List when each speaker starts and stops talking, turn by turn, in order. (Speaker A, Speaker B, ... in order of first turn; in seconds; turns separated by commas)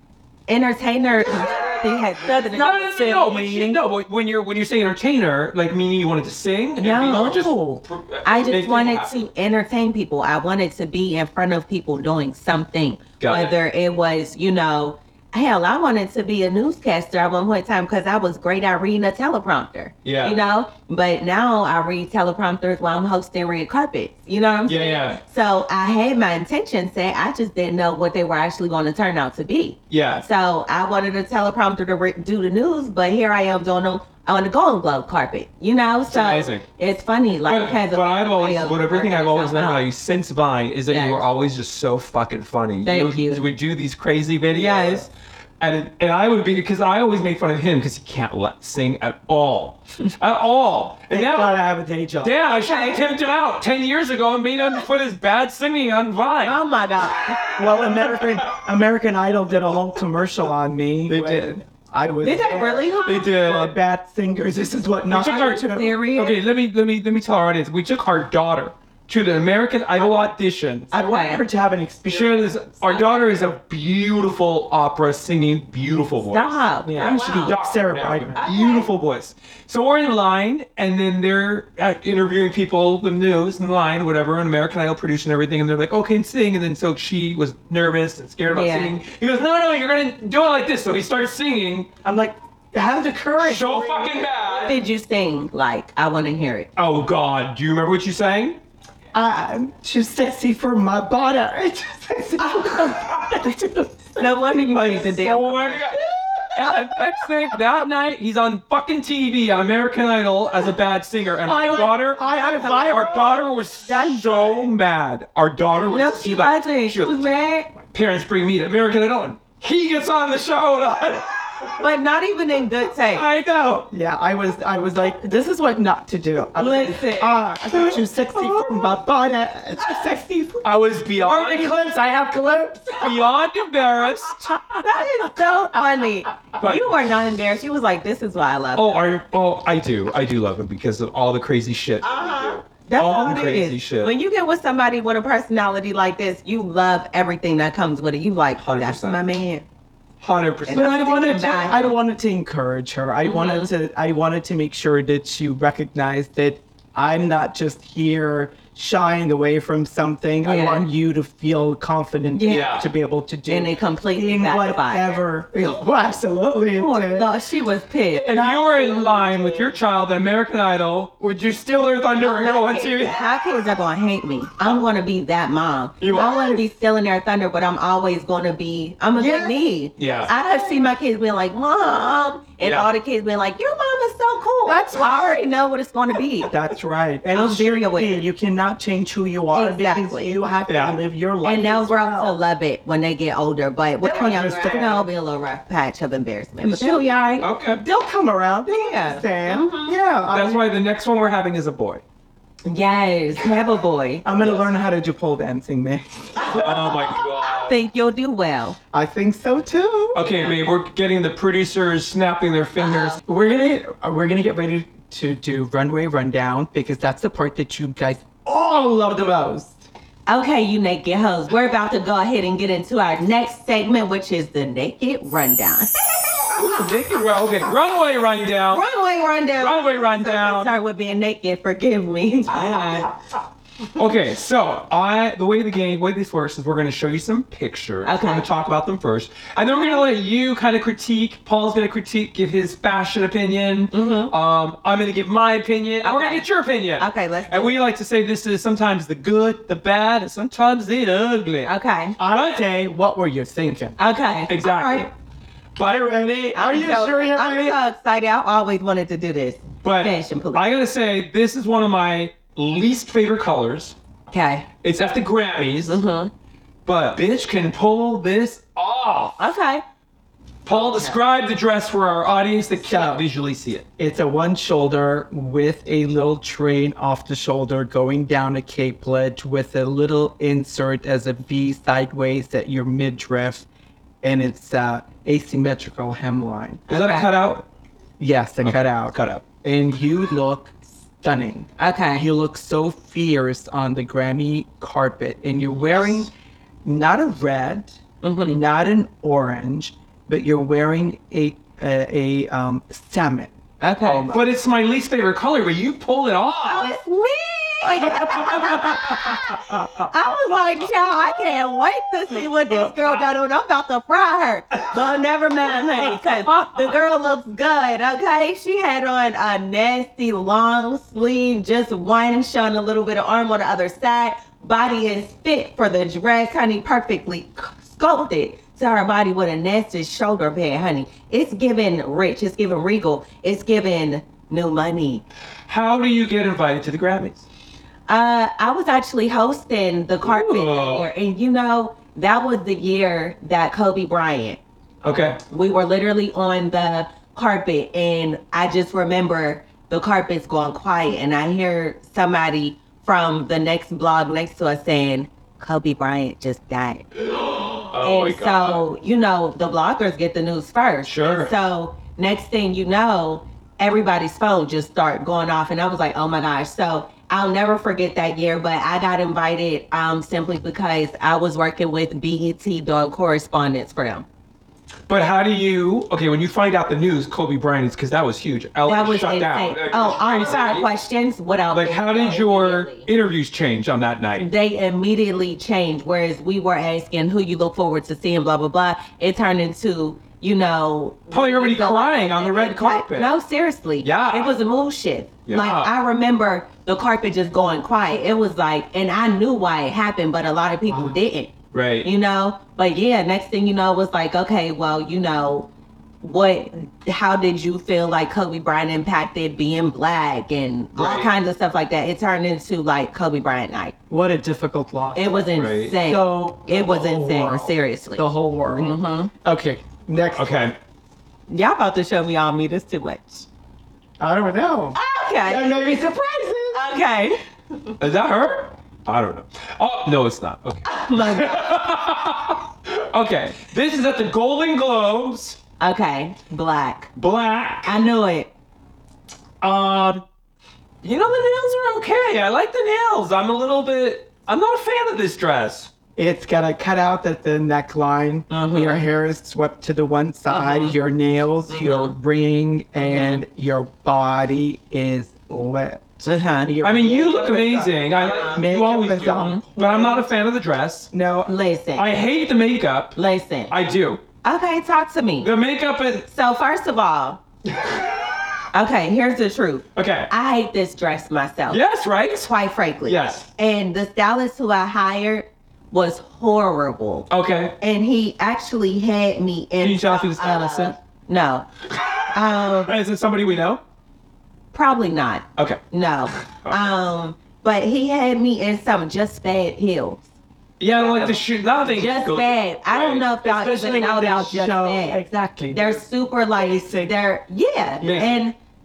Speaker A: 0.5-3.8, Speaker B: 1.2-9.1, Speaker A: 6.8-7.5, Speaker C: 7.1-7.8, Speaker A: 8.2-39.9, Speaker B: 13.2-13.5, Speaker B: 20.0-20.4, Speaker B: 24.7-25.2, Speaker B: 29.9-30.2, Speaker B: 36.1-36.7, Speaker B: 37.5-51.6, Speaker A: 40.9-41.2, Speaker A: 42.8-43.5, Speaker A: 44.5-45.1, Speaker C: 51.1-52.4, Speaker B: 52.2-56.6, Speaker A: 52.6-53.0, Speaker A: 56.4-57.5, Speaker B: 57.4-58.5, Speaker C: 57.5-66.0, Speaker B: 61.1-61.5, Speaker A: 62.2-63.3, Speaker B: 63.0-63.8, Speaker B: 65.1-70.9, Speaker A: 65.2-66.4, Speaker A: 70.9-71.4, Speaker C: 70.9-72.6, Speaker B: 72.1-91.9, Speaker A: 72.9-73.3, Speaker A: 76.3-77.6, Speaker C: 77.0-78.4, Speaker A: 78.4-78.9, Speaker A: 88.5-89.0, Speaker C: 92.0-94.3, Speaker B: 93.4-94.8, Speaker A: 94.5-96.7, Speaker B: 96.8-98.6, Speaker C: 99.1-104.3, Speaker A: 104.2-106.0, Speaker B: 104.7-106.0, Speaker C: 106.0-106.8, Speaker B: 106.5-117.2, Speaker C: 111.5-113.5, Speaker A: 112.6-112.9, Speaker A: 115.9-117.7, Speaker B: 117.9-121.8, Speaker A: 121.8-123.2, Speaker B: 123.0-123.9, Speaker C: 123.9-133.3, Speaker A: 126.6-127.4, Speaker B: 127.7-128.9, Speaker B: 130.6-131.8, Speaker B: 133.0-134.6, Speaker C: 134.3-135.3, Speaker A: 134.8-139.0, Speaker B: 136.6-137.0, Speaker B: 138.8-144.1, Speaker A: 142.0-149.7, Speaker B: 148.6-149.2, Speaker B: 150.2-151.9, Speaker A: 150.7-151.9, Speaker C: 150.8-167.3, Speaker A: 153.2-153.7, Speaker A: 160.4-160.9, Speaker A: 162.3-162.8, Speaker B: 162.5-162.8, Speaker A: 163.5-165.2, Speaker A: 166.8-168.3, Speaker B: 168.2-173.6, Speaker C: 168.3-169.8, Speaker A: 172.2-186.5, Speaker B: 176.0-176.6, Speaker C: 179.2-179.6, Speaker B: 180.0-180.3, Speaker B: 182.6-182.9, Speaker C: 184.7-185.5, Speaker C: 186.4-192.3, Speaker A: 187.3-188.2, Speaker A: 189.5-190.3, Speaker B: 190.7-191.0, Speaker A: 191.4-197.5, Speaker C: 194.0-195.1, Speaker B: 194.2-194.9, Speaker C: 196.6-197.2, Speaker B: 197.4-197.8, Speaker C: 197.8-200.6, Speaker A: 198.7-199.9, Speaker B: 200.3-202.0, Speaker A: 202.7-204.2, Speaker C: 204.2-207.0, Speaker B: 204.4-204.7, Speaker B: 206.5-207.8, Speaker A: 207.5-208.8, Speaker C: 208.9-210.3, Speaker B: 210.1-213.2, Speaker A: 212.8-213.2, Speaker C: 213.2-219.8, Speaker A: 220.3-226.7, Speaker B: 226.5-228.8, Speaker A: 228.7-232.9, Speaker B: 229.6-230.7, Speaker C: 232.5-233.0, Speaker B: 233.9-251.7, Speaker A: 238.0-238.4, Speaker A: 239.7-240.0, Speaker A: 243.9-244.3, Speaker A: 246.0-246.5, Speaker A: 247.0-247.8, Speaker A: 251.7-252.2, Speaker C: 252.2-254.0, Speaker B: 252.3-252.6, Speaker A: 254.0-255.1, Speaker B: 254.5-255.1, Speaker B: 255.8-256.1, Speaker C: 255.8-257.8, Speaker A: 256.5-260.6, Speaker B: 259.8-264.0, Speaker A: 264.3-264.7, Speaker B: 264.8-266.0, Speaker A: 265.9-266.3, Speaker B: 266.9-269.4, Speaker A: 269.4-269.8, Speaker B: 270.6-273.9, Speaker A: 270.7-271.1, Speaker C: 272.8-273.2, Speaker C: 274.0-283.7, Speaker C: 284.2-286.8, Speaker B: 286.9-287.7, Speaker A: 286.9-287.3, Speaker C: 288.2-296.3, Speaker B: 288.6-289.4, Speaker A: 291.8-292.3, Speaker B: 295.9-296.3, Speaker C: 296.8-304.4, Speaker A: 298.2-298.6, Speaker A: 303.8-304.3, Speaker B: 304.3-306.9, Speaker A: 306.6-335.2, Speaker B: 308.0-310.0, Speaker B: 316.2-316.8, Speaker B: 335.7-337.5, Speaker A: 338.1-344.6, Speaker B: 340.2-341.1, Speaker B: 345.0-345.4, Speaker A: 345.4-357.1, Speaker B: 357.3-358.9, Speaker A: 358.0-374.3, Speaker B: 361.1-361.6, Speaker B: 375.1-380.9, Speaker A: 378.9-383.1, Speaker B: 381.7-384.5, Speaker A: 384.4-405.7, Speaker B: 391.3-393.3, Speaker B: 394.0-394.5, Speaker B: 395.5-395.9, Speaker B: 401.7-402.1, Speaker A: 406.2-413.9, Speaker B: 410.9-411.3, Speaker C: 414.1-415.5, Speaker A: 415.1-418.2, Speaker B: 415.6-416.0, Speaker C: 416.0-420.6, Speaker A: 418.8-419.3, Speaker B: 420.4-420.8, Speaker A: 421.5-423.5, Speaker C: 424.2-426.9, Speaker A: 424.9-425.8, Speaker A: 426.7-427.4, Speaker B: 428.0-435.6, Speaker A: 430.9-431.7, Speaker A: 435.8-437.1, Speaker B: 437.2-438.0, Speaker A: 437.9-438.5, Speaker B: 439.6-440.2, Speaker B: 441.0-445.9, Speaker C: 446.2-460.3, Speaker A: 448.5-449.1, Speaker A: 450.5-450.9, Speaker A: 451.7-452.1, Speaker A: 453.0-453.4, Speaker A: 456.2-456.7, Speaker B: 456.8-461.1, Speaker A: 458.3-458.6, Speaker A: 459.4-459.6, Speaker C: 461.1-461.5, Speaker A: 461.5-462.1, Speaker B: 462.0-463.2, Speaker A: 463.1-463.7, Speaker B: 463.7-464.2, Speaker A: 464.4-465.5, Speaker B: 465.4-466.3, Speaker A: 466.3-467.4, Speaker B: 467.8-468.1, Speaker A: 468.7-471.8, Speaker B: 469.9-470.3, Speaker B: 471.7-472.5, Speaker A: 472.4-477.3, Speaker B: 473.1-473.5, Speaker B: 477.3-477.8, Speaker A: 477.8-481.7, Speaker B: 479.8-480.9, Speaker A: 482.3-482.9, Speaker B: 482.6-483.8, Speaker A: 484.7-490.2, Speaker B: 485.6-485.8, Speaker B: 486.4-486.9, Speaker B: 490.8-493.3, Speaker A: 491.9-498.6, Speaker C: 493.4-496.0, Speaker C: 496.6-497.1, Speaker B: 498.0-498.5